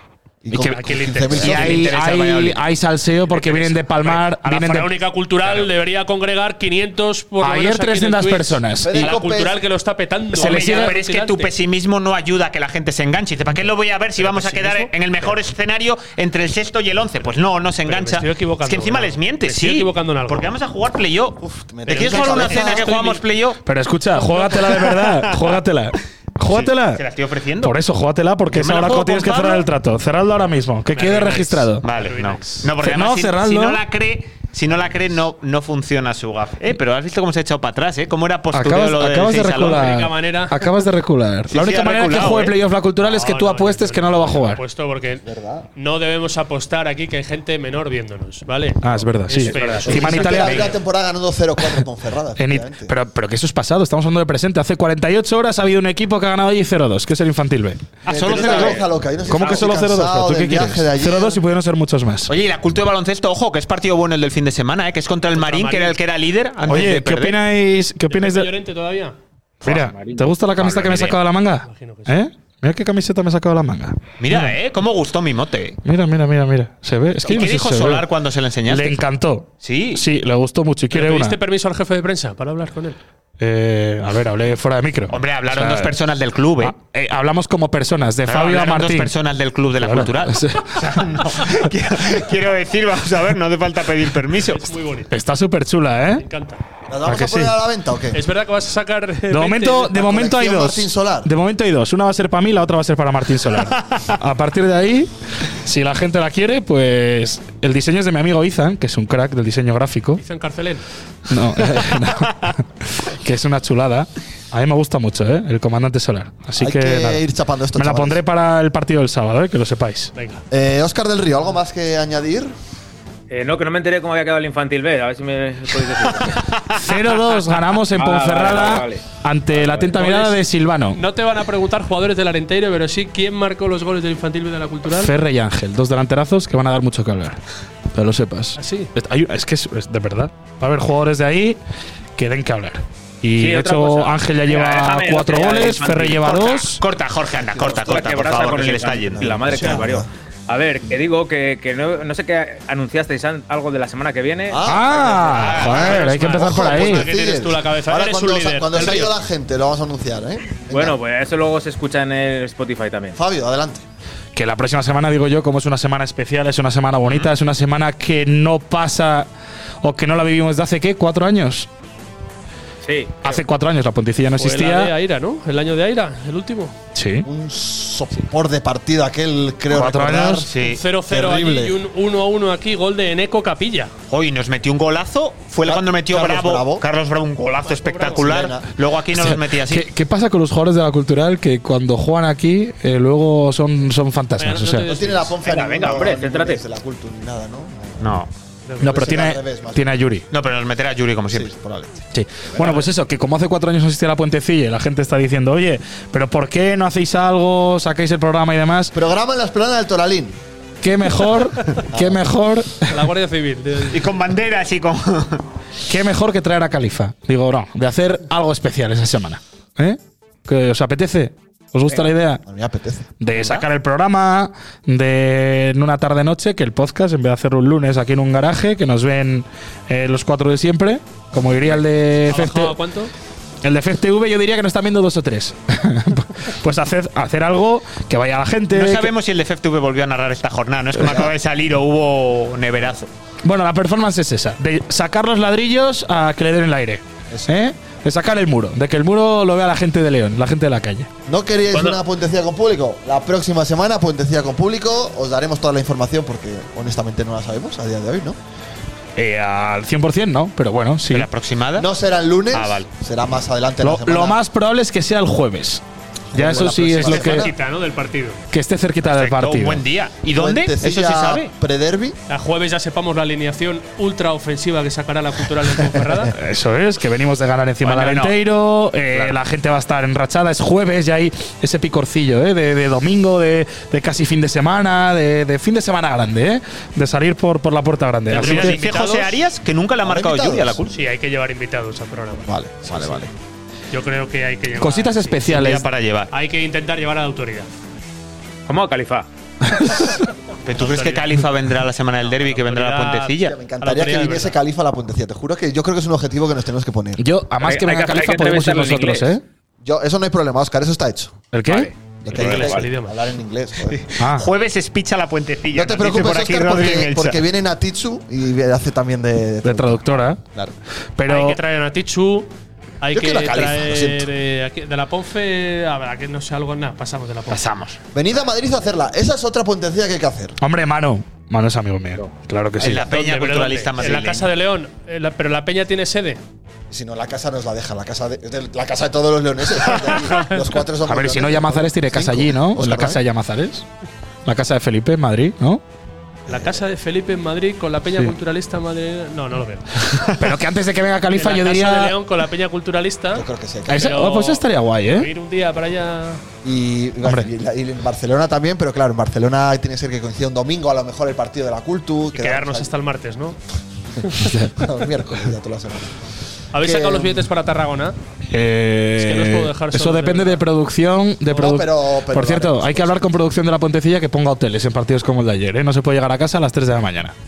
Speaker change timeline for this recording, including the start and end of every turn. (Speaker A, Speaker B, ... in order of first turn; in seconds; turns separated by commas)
Speaker A: 0.5-1.9, Speaker B: 0.5-4.9, Speaker C: 0.6-1.7, Speaker D: 1.4-2.6, Speaker C: 3.3-11.5, Speaker D: 5.4-5.7, Speaker B: 7.4-9.1, Speaker A: 8.8-9.6, Speaker B: 10.3-11.0, Speaker D: 10.3-23.6, Speaker C: 14.2-14.9, Speaker C: 17.9-20.6, Speaker A: 21.4-22.9, Speaker C: 21.9-23.2, Speaker B: 23.6-27.0, Speaker C: 24.1-24.9, Speaker D: 24.6-25.6, Speaker D: 26.5-27.8, Speaker B: 27.6-31.9, Speaker D: 28.5-29.7, Speaker C: 30.9-32.7, Speaker D: 31.8-40.0, Speaker B: 32.8-33.8, Speaker B: 38.5-44.6, Speaker C: 39.6-40.6, Speaker D: 41.5-42.6, Speaker C: 43.0-45.2, Speaker A: 45.2-45.7, Speaker C: 45.8-50.6, Speaker B: 48.8-50.7, Speaker E: 49.4-50.2, Speaker A: 49.9-52.9, Speaker D: 50.4-50.7, Speaker B: 52.4-58.0, Speaker D: 58.1-58.9, Speaker A: 58.1-61.4, Speaker C: 58.1-58.8, Speaker B: 59.3-62.3, Speaker D: 62.3-67.4, Speaker C: 65.4-66.0, Speaker B: 66.7-68.5, Speaker C: 68.1-69.2, Speaker B: 69.6-74.5, Speaker E: 69.6-70.3, Speaker D: 70.6-71.2, Speaker C: 71.7-72.2, Speaker D: 74.2-75.8, Speaker B: 75.8-78.1, Speaker D: 77.2-79.0, Speaker B: 78.7-81.4, Speaker D: 79.6-80.0, Speaker C: 80.9-83.0, Speaker B: 83.4-85.9, Speaker D: 85.1-86.8, Speaker B: 86.6-89.1, Speaker D: 88.2-94.8, Speaker B: 89.8-91.1, Speaker C: 94.5-95.1, Speaker B: 95.1-96.2, Speaker C: 96.2-96.6, Speaker A: 96.9-98.2, Speaker B: 97.1-97.5, Speaker C: 98.1-100.0, Speaker B: 99.3-105.1, Speaker A: 99.9-101.3, Speaker B: 105.7-110.2, Speaker C: 110.2-110.8, Speaker B: 111.3-117.2, Speaker A: 116.6-118.2, Speaker B: 117.8-120.1, Speaker C: 120.2-120.4, Speaker A: 120.5-122.5, Speaker E: 123.3-126.4, Speaker B: 126.8-131.0, Speaker E: 127.9-129.9, Speaker C: 129.9-130.4, Speaker C: 130.9-135.1, Speaker B: 134.9-137.4, Speaker B: 137.9-141.6, Speaker C: 138.6-138.9, Speaker B: 142.2-146.8, Speaker E: 143.4-146.3, Speaker D: 146.2-149.4, Speaker E: 147.8-154.6, Speaker A: 149.2-150.1, Speaker C: 149.5-149.8, Speaker A: 154.5-161.0, Speaker B: 154.7-157.1, Speaker D: 155.3-156.2, Speaker C: 155.7-159.1, Speaker E: 160.7-163.2, Speaker A: 163.1-163.8, Speaker B: 164.3-169.3, Speaker D: 167.1-167.3, Speaker B: 169.8-171.7, Speaker E: 172.8-173.4, Speaker B: 173.2-174.9, Speaker C: 174.4-176.8, Speaker B: 176.9-177.3, Speaker A: 177.2-180.5, Speaker B: 179.7-180.5, Speaker D: 180.5-180.8, Speaker C: 180.6-183.9, Speaker A: 181.1-181.8, Speaker D: 184.1-189.9, Speaker A: 185.7-186.9, Speaker C: 187.6-188.5, Speaker A: 188.1-188.7, Speaker B: 189.2-194.9, Speaker C: 194.4-195.3, Speaker A: 194.8-198.2, Speaker E: 195.4-196.6, Speaker D: 198.0-198.3, Speaker C: 198.7-199.2, Speaker A: 198.8-199.9, Speaker B: 198.8-200.3, Speaker D: 200.3-201.5, Speaker A: 201.3-202.0, Speaker B: 202.1-208.9, Speaker A: 208.9-210.4, Speaker B: 210.8-213.0, Speaker A: 211.9-212.2, Speaker C: 212.9-214.1, Speaker D: 213.9-215.4, Speaker B: 215.9-222.4, Speaker A: 222.4-223.1, Speaker B: 223.2-232.8, Speaker D: 223.3-223.7, Speaker C: 232.3-233.1, Speaker B: 233.6-239.1, Speaker D: 238.7-243.1, Speaker B: 241.0-241.3, Speaker B: 243.4-251.1, Speaker A: 251.3-258.4, Speaker B: 259.2-261.3, Speaker D: 261.1-261.9, Speaker A: 261.8-264.4, Speaker D: 262.5-262.9, Speaker B: 263.8-265.8, Speaker A: 266.3-267.5, Speaker B: 266.3-267.5, Speaker C: 266.9-268.4, Speaker B: 268.5-269.8, Speaker D: 269.0-271.5, Speaker A: 270.3-272.2, Speaker C: 272.3-276.3, Speaker B: 276.3-288.8, Speaker D: 277.8-278.4, Speaker D: 279.1-279.4, Speaker C: 288.3-289.4, Speaker D: 288.3-290.9, Speaker A: 290.0-290.8, Speaker C: 290.9-293.2, Speaker A: 292.5-293.3, Speaker C: 293.9-295.6, Speaker B: 294.7-295.9, Speaker D: 295.4-296.3, Speaker C: 296.3-297.7, Speaker E: 298.7-299.3, Speaker B: 299.7-300.2, Speaker D: 300.6-303.6, Speaker C: 300.7-301.3, Speaker C: 302.2-304.6, Speaker A: 303.4-307.2, Speaker B: 307.2-309.4, Speaker E: 307.6-309.4, Speaker A: 309.8-311.4, Speaker B: 311.5-311.9, Speaker E: 311.7-312.9, Speaker A: 312.2-314.1, Speaker C: 312.3-313.2, Speaker B: 314.2-314.5, Speaker D: 314.3-317.4, Speaker A: 315.7-320.7, Speaker B: 319.6-320.4, Speaker B: 321.2-321.6, Speaker C: 321.3-322.5, Speaker C: 323.0-327.7, Speaker A: 323.1-324.3, Speaker D: 327.5-328.0, Speaker A: 328.1-330.6, Speaker B: 330.6-333.1, Speaker D: 332.8-334.5, Speaker C: 332.8-336.4, Speaker A: 336.9-343.2, Speaker C: 340.0-340.7, Speaker B: 341.1-343.9, Speaker B: 344.5-345.8, Speaker A: 346.5-346.8, Speaker C: 346.5-349.9, Speaker B: 350.4-352.1, Speaker C: 351.4-356.4, Speaker A: 353.3-354.2, Speaker B: 353.9-355.3, Speaker A: 356.6-362.9, Speaker C: 362.3-363.6, Speaker B: 364.4-364.7, Speaker A: 364.6-366.2, Speaker C: 366.7-368.2, Speaker A: 366.8-367.5, Speaker B: 368.5-377.4, Speaker C: 369.2-370.6, Speaker A: 371.5-373.3